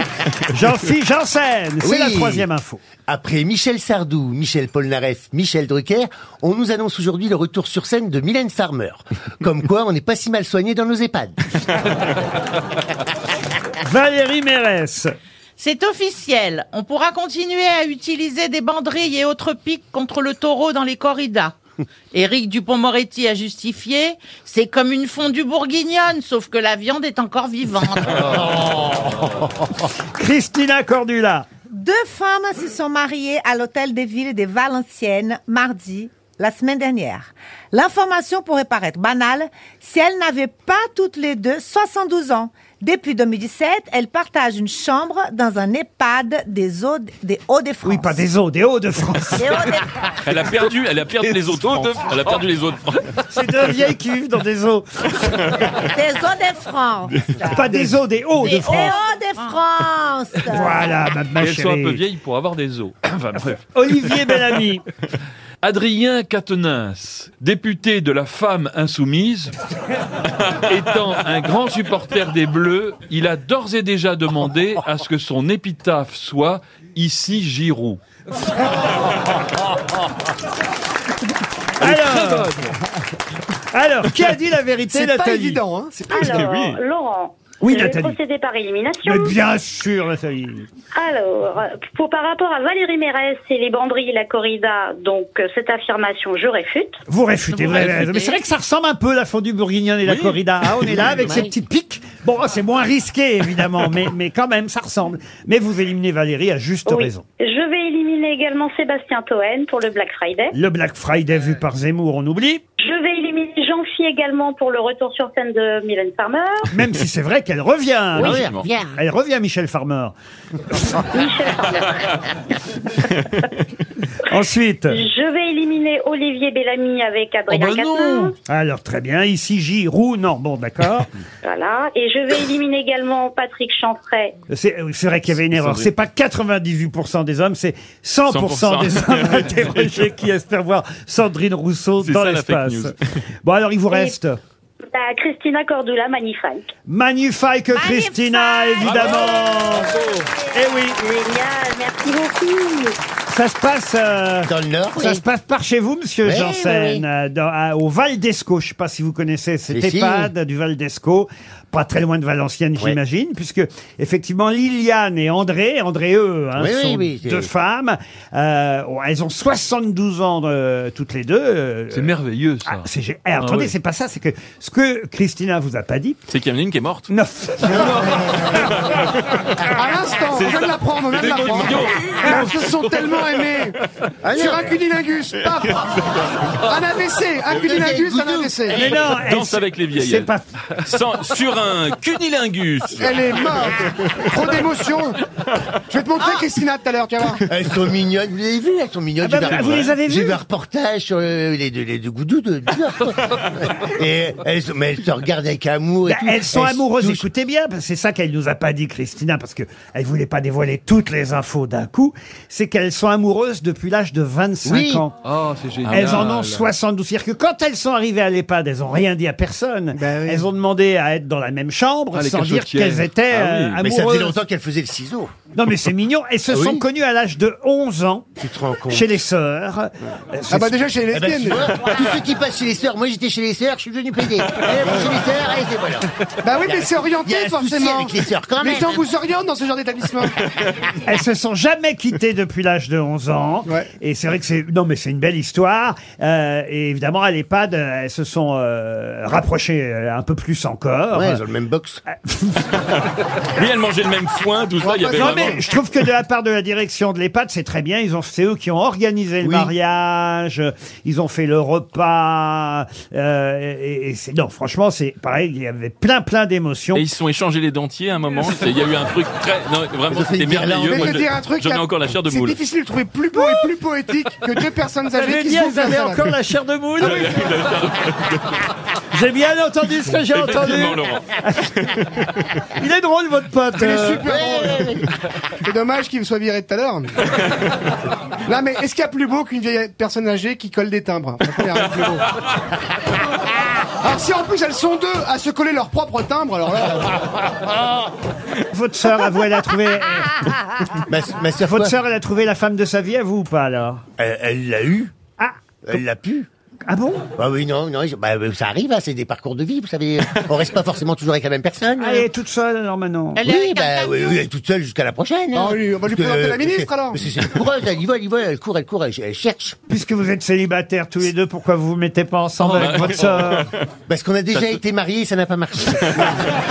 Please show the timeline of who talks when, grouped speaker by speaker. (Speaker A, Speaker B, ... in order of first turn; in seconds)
Speaker A: 0.5-2.8, 13.8-15.1, 30.1-31.5, 47.8-49.6, 53.2-55.5, 57.5-59.0, 60.5-62.0, 63.7-64.8, 81.8-82.7, 83.7-85.6, 87.6-88.2, 89.0-90.7, 97.1-107.2, 110.5-112.6, 116.7-120.1, 124.3-125.0, 128.4-131.1, 134.5-144.4, 146.9-149.9, 150.5-151.0, 153.3-176.2, 177.1-178.9, 188.7-190.4, 199.2-200.4, 206.1-215.2, 215.8-224.4, 225.5-228.3, 228.9-230.8, 241.0-251.4, 252.1-252.7, 255.1-267.1, 275.1-277.6, 279.1-282.0, 282.7-284.3, 298.6-300.5, 301.6-304.0, 305.4-306.0, 306.9-307.3, 312.0-313.5, 319.9-323.7
Speaker B: 1.8-2.5, 3.1-11.4, 118.2-118.7, 154.5-155.2, 156.2-157.1, 159.7-160.3, 166.6-167.5, 184.2-184.7, 187.5-188.9, 197.4-207.2, 214.6-215.0, 223.8-225.3, 226.5-226.8, 228.4-229.2, 231.1-236.1, 236.7-239.0, 251.1-252.0, 259.4-259.7, 270.1-271.2, 284.2-285.1, 301.1-301.9, 304.2-305.1, 305.9-306.5, 307.4-312.3, 313.5-319.8, 324.1-326.3
Speaker C: 15.6-21.5, 22.1-28.5, 58.6-60.0, 97.5-98.4, 196.2-196.5, 313.4-314.4
Speaker D: 31.7-48.3, 49.3-50.0, 55.8-57.5, 58.4-61.0, 147.7-149.1, 149.6-150.7
Speaker E: 50.2-53.1, 86.2-86.8, 118.2-118.7, 135.4-135.9, 138.3-139.6, 142.0-142.9, 148.8-150.3, 176.3-177.1, 178.1-183.7, 185.5-186.5, 188.8-194.3, 199.4-199.9, 252.8-256.0, 266.9-272.6, 277.0-278.7, 280.2-282.6, 287.3-287.9, 322.7-323.9
Speaker F: 51.4-51.8, 84.9-86.6, 179.7-183.8, 184.3-185.8, 186.7-188.8, 192.9-195.2, 195.9-197.4, 219.9-220.5, 230.5-231.7, 236.4-240.3, 254.8-255.5, 270.8-276.4, 277.0-277.3, 283.7-285.0, 285.6-287.1, 288.4-292.2, 294.0-297.2, 315.5-317.4
Speaker G: 61.3-64.4, 65.6-69.5, 70.6-78.0, 81.8-82.7, 127.5-128.3, 171.9-173.7, 215.2-216.7, 222.1-223.8, 322.6-323.1
Speaker H: 86.1-89.4, 91.0-97.0, 106.8-110.5, 112.8-116.7, 121.1-122.2, 123.0-123.4, 124.9-128.3, 131.4-134.3, 144.9-146.7, 150.9-152.9